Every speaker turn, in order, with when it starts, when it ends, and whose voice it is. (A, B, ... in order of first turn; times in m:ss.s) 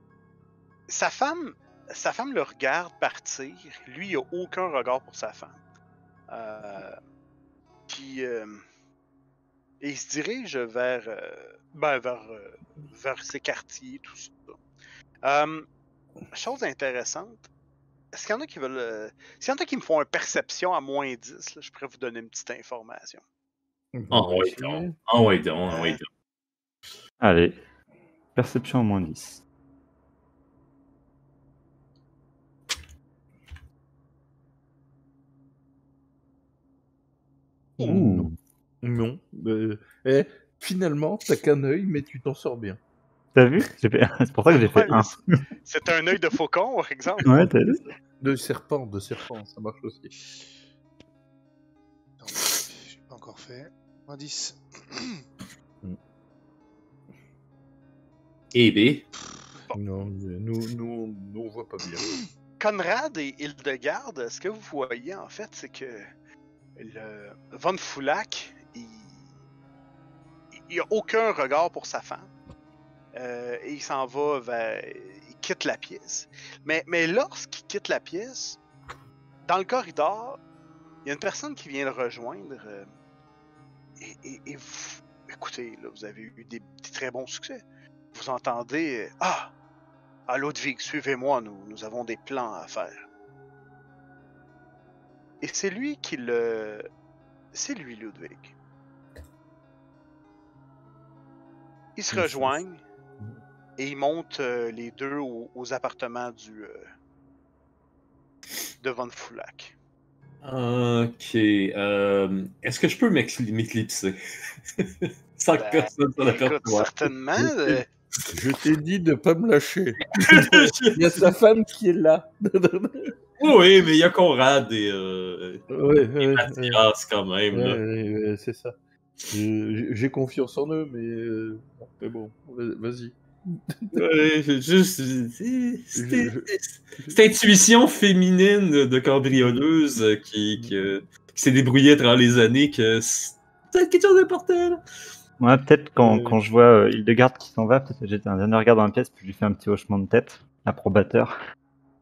0:00.9-0:05.6 A
0:06.3-0:07.0 A
0:07.9-0:08.6 A
0:09.8-0:14.6 A
0:15.2-0:15.7 A
0:16.3-0:17.5 A
0:18.1-0:23.2 A
0:23.9-0:24.9 B
0:24.1-0:26.1 C
0:25.7-0:26.0 A
0:27.2-0:27.6 D
0:28.4-0:29.4 D
0:37.8-0:42.8 B
0:37.8-0:38.4 D
0:43.4-0:45.1 D
0:44.5-0:47.5 A
0:47.2-0:47.8 D
0:48.2-0:50.4 B
0:52.2-0:55.2 E
0:58.5-0:59.1 C
0:59.7-1:02.2 B
1:02.6-1:06.1 A
1:06.8-1:09.2 A
1:10.6-1:12.3 A
1:13.1-1:18.6 A
1:19.5-1:20.4 A
1:21.0-1:22.9 A
1:24.0-1:27.6 A
1:28.1-1:29.5 A
1:30.3-1:33.1 A
1:35.4-1:36.9 A
1:37.5-1:38.5 A
1:42.0-1:42.8 A
1:42.1-1:42.6 B
1:43.8-1:46.8 A
1:48.8-1:49.7 A
1:50.4-1:54.2 C
1:54.8-1:57.1 C
1:55.6-1:57.9 A
1:57.4-1:57.8 B
1:58.3-2:03.1 B
2:00.2-2:01.2 C
2:03.4-2:07.8 C
2:05.7-2:06.8 B
2:07.5-2:08.7 B
2:09.3-2:13.9 B
2:13.9-2:24.8 C
2:16.0-2:17.2 B
2:25.4-2:31.3 D
2:26.0-2:26.4 B